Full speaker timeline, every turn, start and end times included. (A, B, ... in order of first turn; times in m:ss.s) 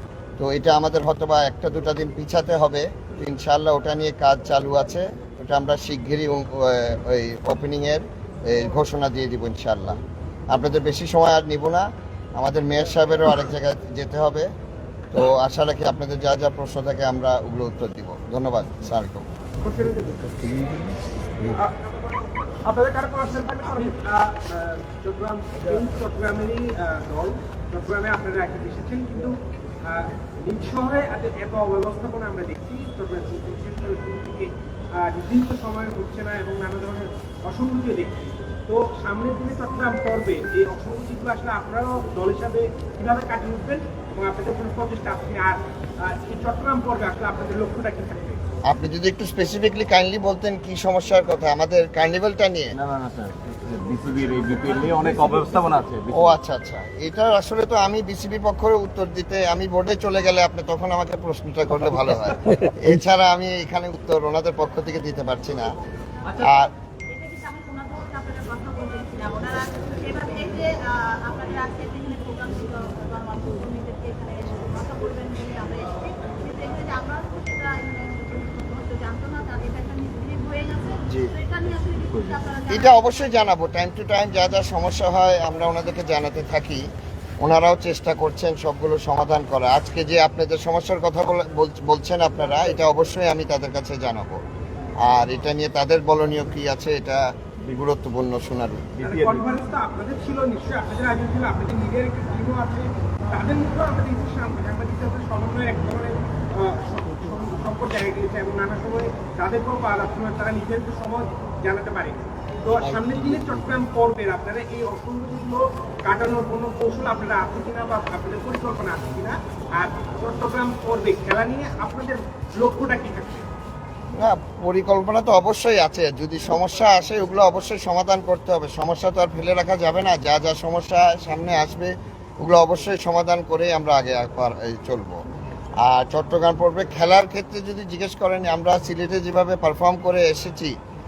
0:00.4-0:10.0 A
0:10.5-0:14.5 A
0:15.1-0:19.2 A
0:19.6-0:20.1 B
0:21.5-0:22.0 B
0:22.6-0:29.3 B
0:29.8-0:48.4 B
0:48.6-0:52.8 A
0:52.7-0:56.2 C
0:56.1-1:05.7 A
1:06.4-1:06.7 A
1:07.1-1:23.4 D
1:21.1-1:21.3 A
1:22.7-1:26.8 A
1:27.4-1:34.4 A
1:35.0-1:38.9 A
1:39.0-2:03.5 B
2:04.1-2:15.2 A
2:15.8-2:20.8 A